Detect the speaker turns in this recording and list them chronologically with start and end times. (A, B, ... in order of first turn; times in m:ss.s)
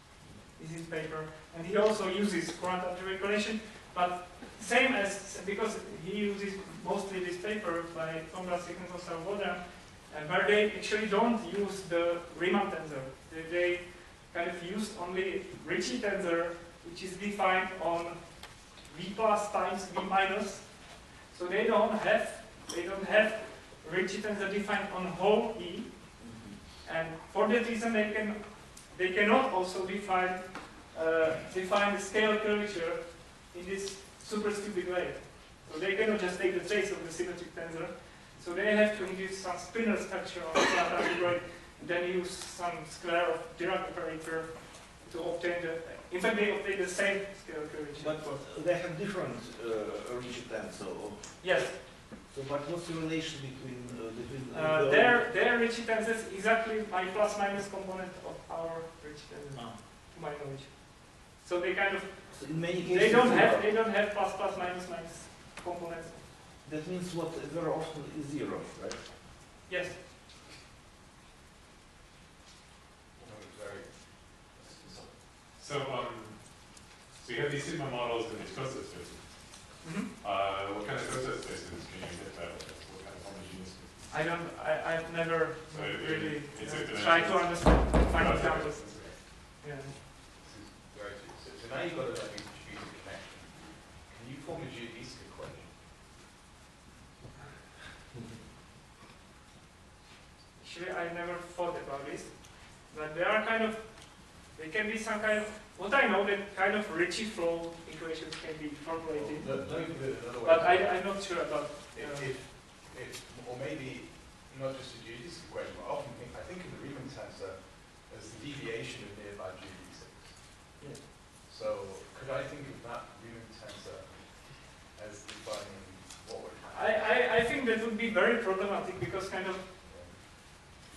0:00.5-0:48.2 A
0:26.2-0:26.6 B
0:47.9-0:55.3 B
0:51.4-0:51.8 A
0:54.5-1:06.2 A
0:59.5-0:59.8 B
1:02.3-1:03.7 B
1:06.6-1:09.1 B
1:09.7-1:10.0 A
1:13.1-1:14.9 C
1:15.3-1:24.1 D
1:19.8-1:20.1 A
1:24.1-1:29.9 A
1:25.7-1:29.1 D
1:28.2-1:29.2 C
1:30.0-1:35.8 C
1:40.6-1:52.4 A
1:49.1-2:07.3 C
2:00.8-2:01.0 A
2:06.7-2:10.4 A
2:09.8-2:10.2 C